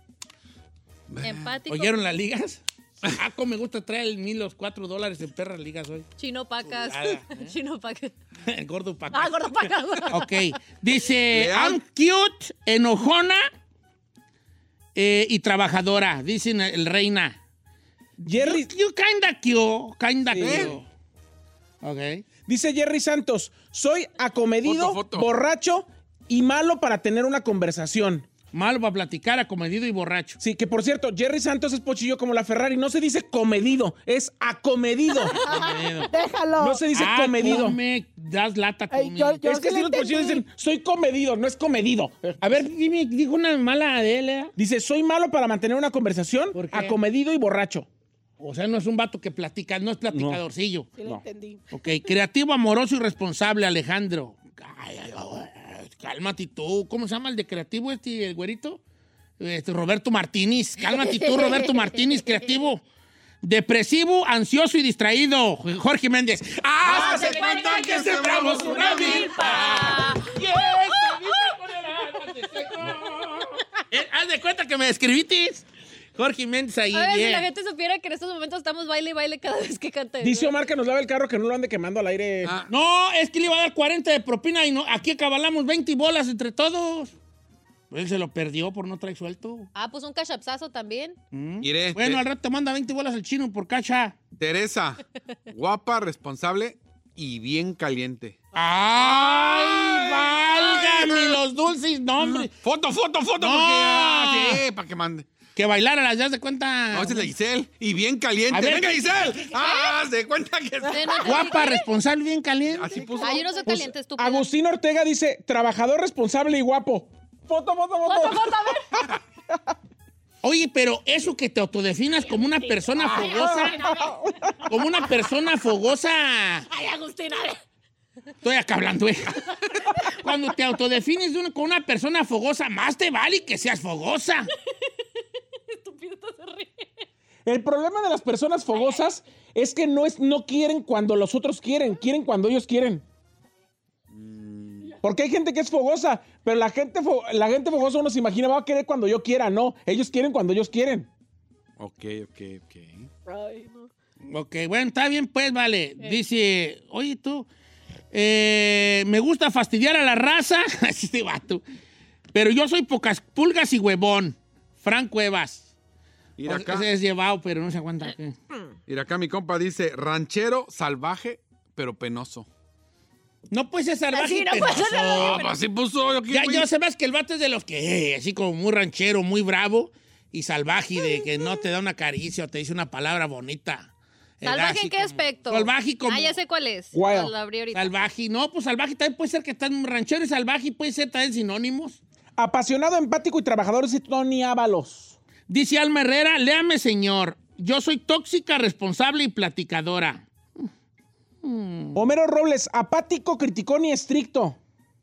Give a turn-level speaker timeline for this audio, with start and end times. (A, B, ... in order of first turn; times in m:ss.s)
0:01.1-0:01.4 A
0:01.2-0:02.0 B
0:01.7-0:06.1 C
0:06.2-0:08.1 B
0:06.7-0:07.5 C
0:08.4-0:09.4 C
0:09.1-0:10.5 B
0:10.1-0:13.5 C
0:11.3-0:11.8 A
0:14.9-0:17.4 C
0:18.2-0:18.7 D
0:18.3-0:20.8 C
0:20.3-0:20.8 D
0:20.4-0:20.7 A
0:21.8-0:22.2 C
0:22.5-0:28.3 D
0:24.6-0:25.3 A
0:28.5-0:30.4 C
0:30.4-0:35.4 D
0:35.2-0:36.8 E
0:35.4-0:36.1 C
0:36.6-0:37.8 D
0:36.9-0:39.4 C
0:38.9-0:40.4 E
0:39.4-0:42.6 D
0:42.4-0:44.5 C
0:44.6-0:47.9 D
0:46.5-0:47.0 C
0:48.4-0:50.9 C
0:50.1-0:50.4 D
0:51.0-0:51.6 E
0:51.7-0:58.8 C
0:59.4-1:02.8 C
1:00.8-1:02.6 B
1:03.4-1:17.5 C
1:06.8-1:09.7 A
1:07.0-1:08.0 B
1:08.5-1:11.4 B
1:16.9-1:20.6 B
1:20.2-1:22.5 D
1:22.4-1:22.7 A
1:22.7-1:27.1 C
1:27.9-1:29.7 C
1:29.7-1:31.2 B
1:31.3-1:34.2 C
1:31.6-1:32.2 A
1:34.4-1:38.4 A
1:38.5-1:42.5 C
1:39.0-1:41.4 A
1:42.2-1:45.3 A
1:43.4-1:44.6 C
1:45.5-1:47.3 C
1:46.9-1:51.5 A
1:48.5-1:49.4 C
1:49.5-1:49.9 B
1:50.8-1:51.9 B
1:51.2-1:53.3 C
1:52.7-1:53.7 A
1:53.2-1:54.5 B
1:53.6-1:59.1 D
1:58.0-1:58.9 B
2:00.4-2:03.8 C
2:02.3-2:04.1 B
2:03.0-2:04.7 D
2:04.7-2:06.7 C
2:06.7-2:07.6 B
2:08.4-2:14.5 C
2:15.7-2:16.9 B
2:17.4-2:23.0 D
2:18.7-2:19.0 B
2:24.1-2:25.0 A
2:25.0-2:31.1 D
2:31.8-2:33.1 A
2:33.2-2:33.9 E
2:34.2-2:37.5 C
2:38.1-2:41.6 C
2:42.3-2:45.7 C
2:46.4-2:46.9 A
2:46.4-2:48.4 C
2:48.9-2:52.5 A
2:53.5-2:55.5 C
2:54.1-2:55.5 B
2:55.1-2:56.7 A
2:56.3-3:06.3 C
3:01.0-3:01.5 B
3:04.4-3:08.0 B
3:06.9-3:07.3 D
3:07.7-3:12.0 C
3:12.4-3:15.2 D
3:15.5-3:20.7 C
3:21.4-3:22.0 C
3:21.9-3:24.6 D